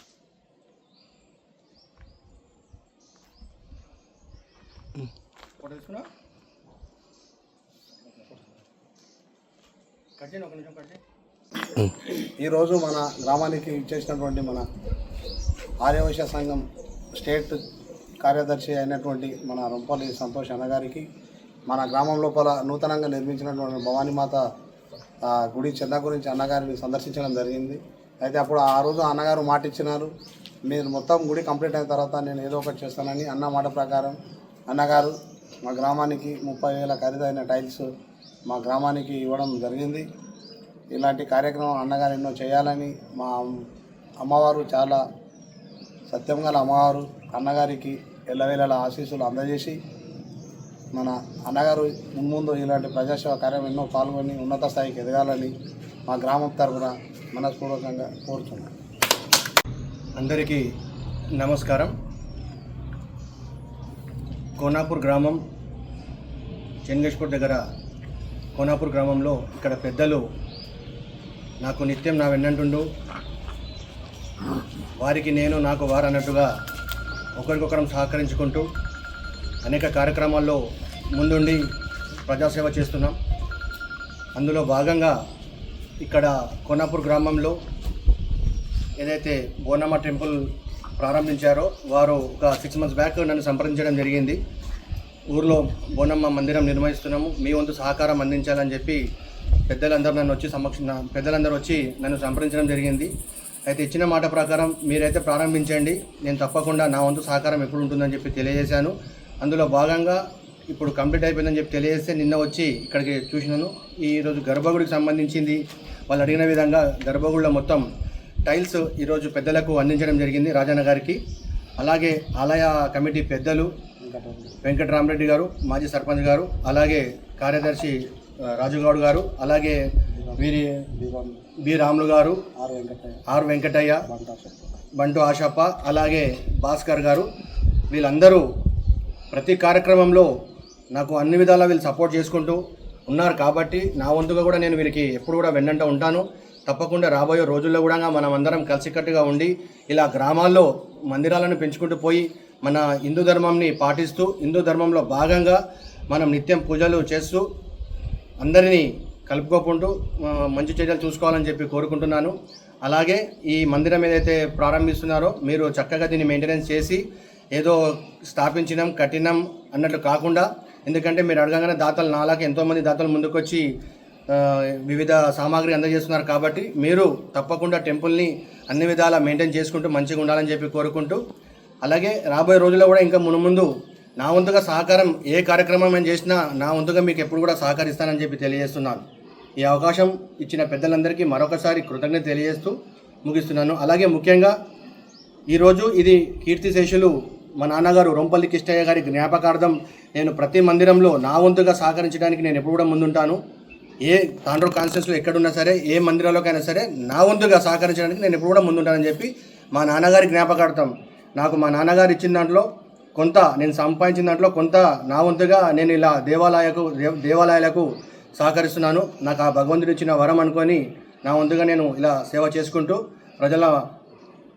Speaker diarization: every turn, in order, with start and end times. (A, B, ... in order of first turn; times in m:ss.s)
0:05.6-0:06.1 A
0:10.2-0:11.0 A
0:12.2-0:14.7 B
0:15.8-0:16.6 B
0:17.2-0:17.6 B
0:18.2-0:21.1 B
0:21.7-0:24.4 B
0:25.2-0:30.1 B
0:30.7-0:34.2 B
0:34.7-0:37.9 B
0:38.5-0:40.0 B
0:40.9-0:43.6 B
0:44.2-0:45.0 B
0:46.1-0:49.8 B
0:50.9-0:55.5 B
0:56.1-0:58.7 B
1:00.2-1:00.6 A
1:01.4-1:01.9 A
1:04.6-1:05.4 A
1:06.9-1:07.6 A
1:08.6-1:10.2 A
1:11.6-1:12.9 A
1:15.0-1:16.5 A
1:17.4-1:18.7 A
1:19.6-1:20.6 A
1:21.2-1:21.6 A
1:22.3-1:23.2 A
1:24.4-1:25.2 A
1:26.0-1:27.6 A
1:29.0-1:30.4 A
1:31.0-1:34.4 A
1:35.3-1:39.0 A
1:39.7-1:43.1 A
1:43.7-1:57.8 A
1:58.5-2:01.2 A
2:01.8-2:03.7 A
2:04.0-2:04.5 B
2:04.6-2:08.0 A
2:08.6-2:09.8 A
2:10.4-2:10.7 A
2:11.0-2:11.4 B
2:11.6-2:12.4 A
2:12.6-2:13.2 B
2:13.3-2:14.0 A
2:14.1-2:14.6 B
2:15.0-2:17.3 A
2:17.9-2:18.5 A
2:19.3-2:20.3 A
2:20.9-2:35.6 A
2:36.1-2:37.4 A
2:38.4-2:42.3 A
2:42.8-2:47.0 A
2:47.6-2:53.6 A
2:54.3-3:01.2 A
3:01.8-3:09.0 A
3:09.6-3:14.6 A
3:15.5-3:23.4 A
3:24.0-3:43.8 A